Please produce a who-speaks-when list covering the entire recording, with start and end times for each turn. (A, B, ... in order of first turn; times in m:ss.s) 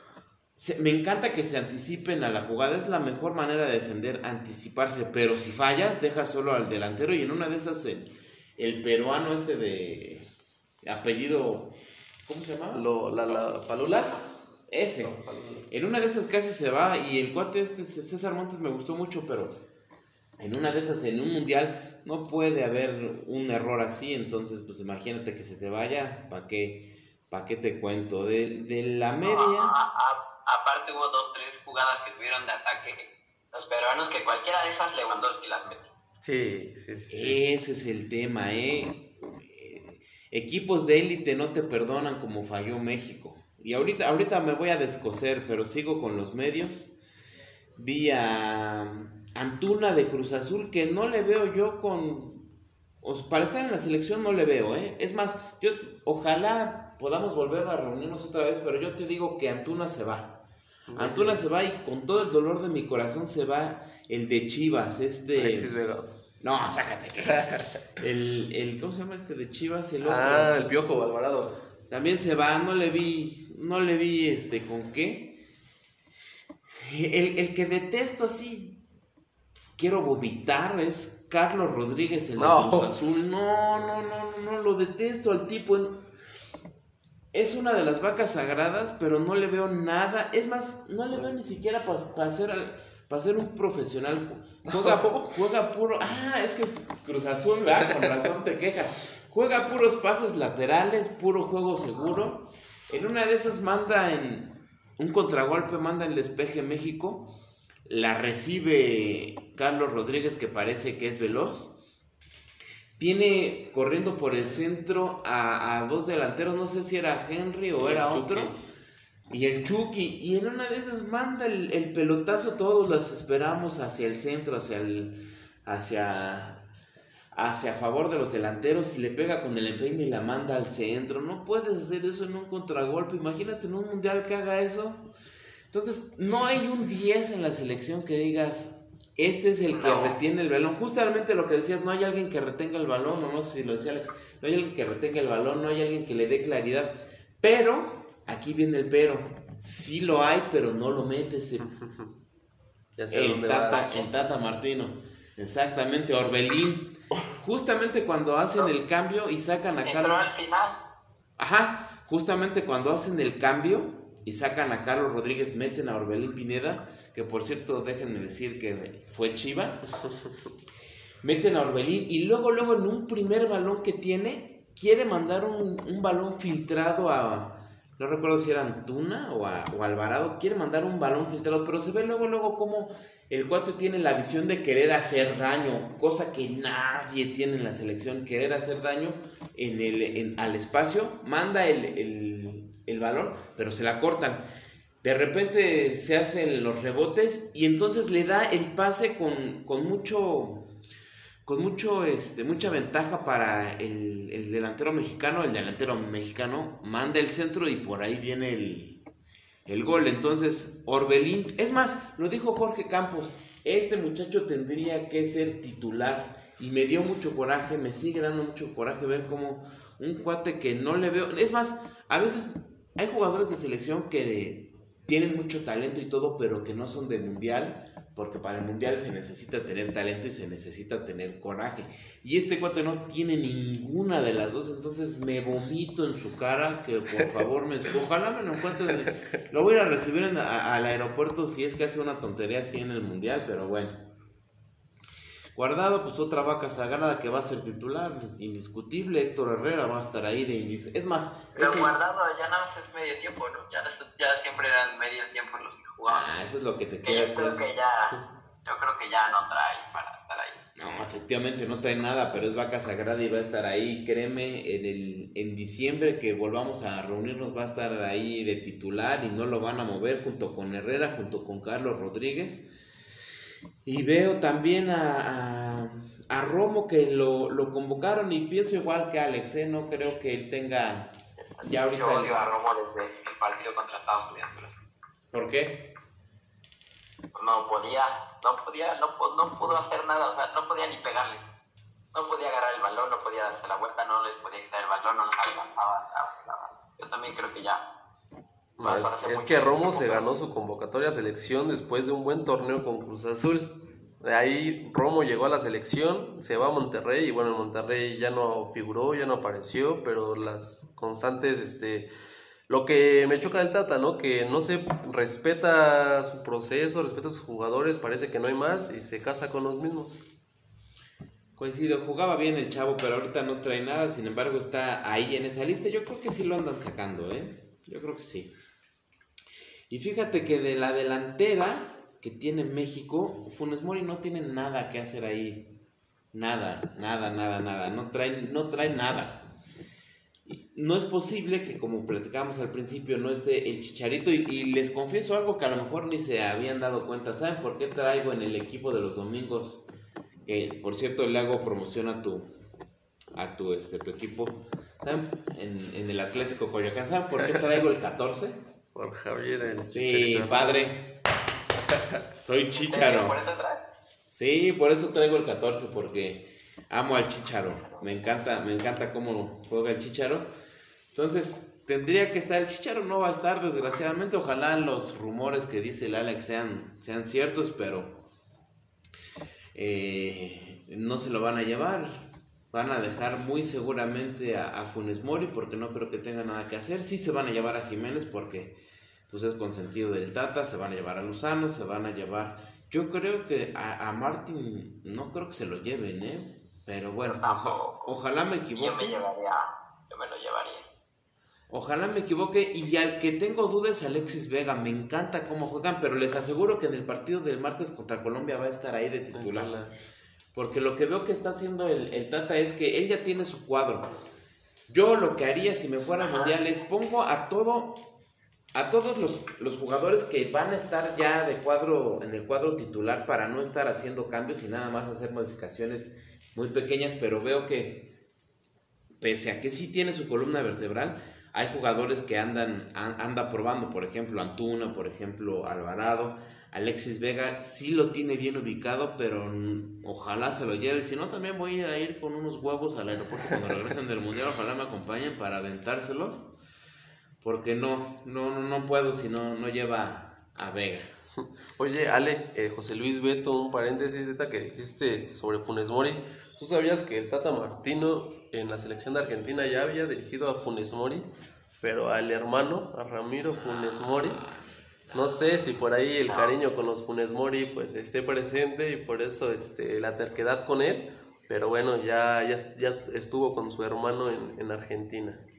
0:00.6-0:10.3 A
0:10.8-0:11.7 A
0:12.2-0:13.6 A
0:12.7-0:14.2 B
0:14.7-0:19.6 A
0:15.0-0:15.7 B
0:20.4-0:29.7 A
0:29.2-0:35.9 C
0:36.2-0:37.4 B
0:37.1-0:46.9 A
0:47.8-0:52.5 A
0:53.0-1:00.4 A
1:00.9-1:01.4 B
1:01.0-1:05.7 A
1:05.3-1:06.1 B
1:06.4-1:10.6 A
1:07.3-1:07.6 B
1:10.0-1:11.6 B
1:11.9-1:15.4 A
1:16.7-1:18.8 A
1:19.8-1:26.0 A
1:22.4-1:22.9 B
1:27.3-1:47.3 A
1:47.8-1:51.7 A
1:53.0-1:58.5 A
1:57.8-1:58.5 B
1:59.3-2:06.7 A
2:07.3-2:15.1 A
2:15.7-2:31.7 A
2:19.7-2:20.2 C
2:31.6-2:32.1 B
2:33.0-2:33.9 B
2:33.1-2:40.3 A
2:39.8-2:40.8 C
2:41.4-2:49.9 A
2:51.2-3:14.4 A
3:15.0-3:20.7 A
3:21.4-3:29.0 A
3:29.6-4:04.0 A
4:05.5-4:11.9 A
4:11.5-4:16.3 C
4:16.1-4:17.6 A
4:17.0-4:20.6 C
4:20.8-4:32.6 A
4:33.8-4:42.3 A
4:41.6-4:44.8 C
4:45.3-4:45.9 A
4:47.3-4:51.4 C
4:52.1-4:57.8 C
4:58.8-5:12.1 B
4:58.8-5:00.3 C
5:12.7-5:20.2 B
5:21.6-5:28.5 A
5:29.9-5:35.7 A
5:36.3-5:39.4 A
5:40.4-5:49.8 A
5:50.4-5:52.5 A
5:53.3-5:58.6 A
5:58.9-6:00.9 B
5:59.9-6:01.1 A
6:02.4-6:03.4 A
6:02.8-6:03.8 C
6:04.3-6:10.5 A
6:07.8-6:08.3 C
6:11.1-6:18.2 A
6:19.7-6:28.8 A
6:29.3-6:39.2 A
6:37.2-6:38.1 C
6:38.7-6:40.9 C
6:41.7-6:49.7 A
6:49.3-6:49.9 B
6:50.5-6:54.1 A
6:54.9-6:58.0 A
6:56.2-6:56.5 C
6:58.7-7:08.1 A
7:09.2-7:26.5 A
7:27.4-7:31.1 A
7:31.8-7:41.3 B
7:41.8-7:44.4 B
7:43.5-7:45.4 A
7:45.1-7:55.4 B
7:46.3-7:46.5 C